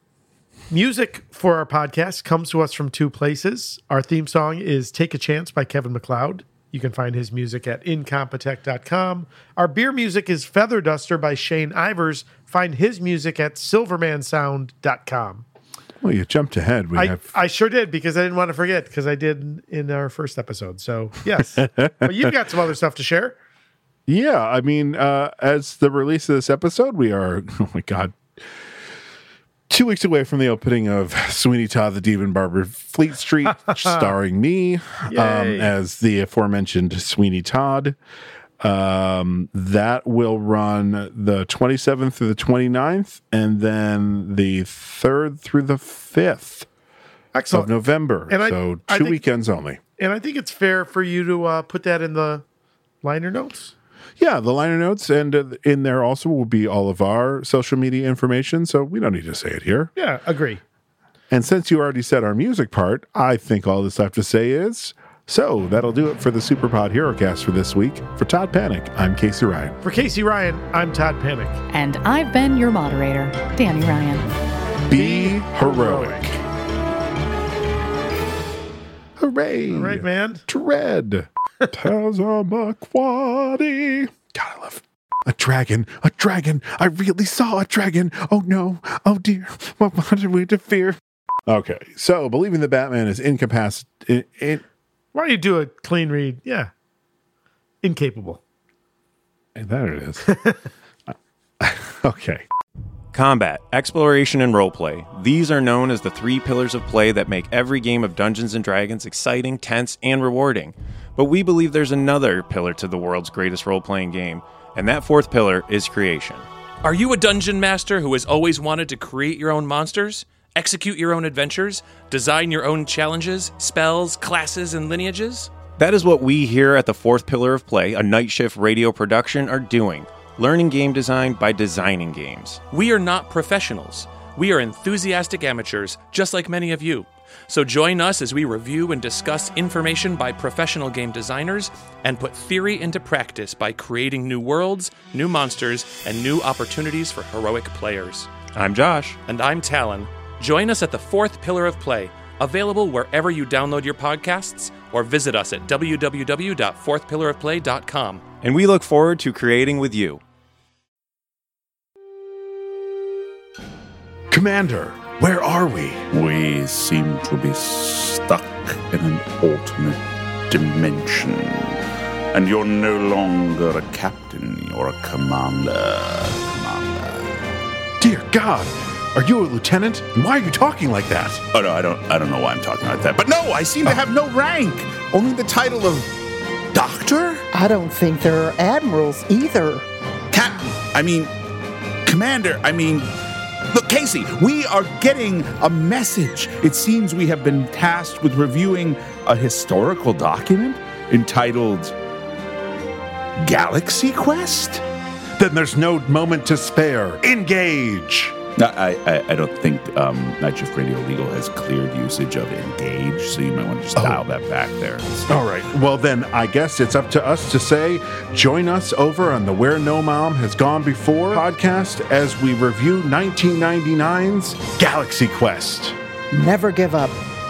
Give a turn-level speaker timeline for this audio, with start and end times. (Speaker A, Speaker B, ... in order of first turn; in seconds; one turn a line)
Speaker A: 0.7-15.4
Speaker B: 16.0-17.3
Speaker A: 16.9-23.4
Speaker B: 21.4-22.3
Speaker B: 24.1-28.2
Speaker B: 29.7-38.0
Speaker A: 33.5-34.1
Speaker A: 35.1-35.7
Speaker B: 38.6-46.7
Speaker A: 47.3-47.7
Speaker B: 47.5-49.8
Speaker A: 48.3-49.2
Speaker A: 50.0-52.4
Speaker A: 53.0-53.7
Speaker B: 54.2-59.9
Speaker A: 60.0-60.6
Speaker B: 61.3-69.8
Speaker A: 69.8-71.6
Speaker C: 71.7-74.3
Speaker B: 74.9-76.4
Speaker A: 74.9-76.2
Speaker B: 79.2-94.6
Speaker A: 79.7-80.4
Speaker A: 95.1-96.7
Speaker A: 97.8-98.4
Speaker B: 99.5-100.3
Speaker A: 100.2-100.6
Speaker B: 101.6-102.4
Speaker D: 103.1-116.5
Speaker E: 116.8-125.5
Speaker D: 125.8-132.6
Speaker E: 132.7-148.4
Speaker D: 148.5-149.2
Speaker E: 149.3-158.3
Speaker D: 158.4-160.2
Speaker B: 164.3-166.0
Speaker F: 166.1-171.8
Speaker F: 172.3-177.4
Speaker B: 178.0-181.4
Speaker F: 181.5-186.1
Speaker F: 186.7-187.4
Speaker G: 187.5-189.8
Speaker F: 190.3-191.3
Speaker F: 192.0-193.1
Speaker F: 193.7-201.9
Speaker F: 203.4-204.8
Speaker B: 205.4-208.4
Speaker F: 208.6-215.2
Speaker B: 213.9-214.2
Speaker B: 215.3-226.0
Speaker G: 226.3-227.2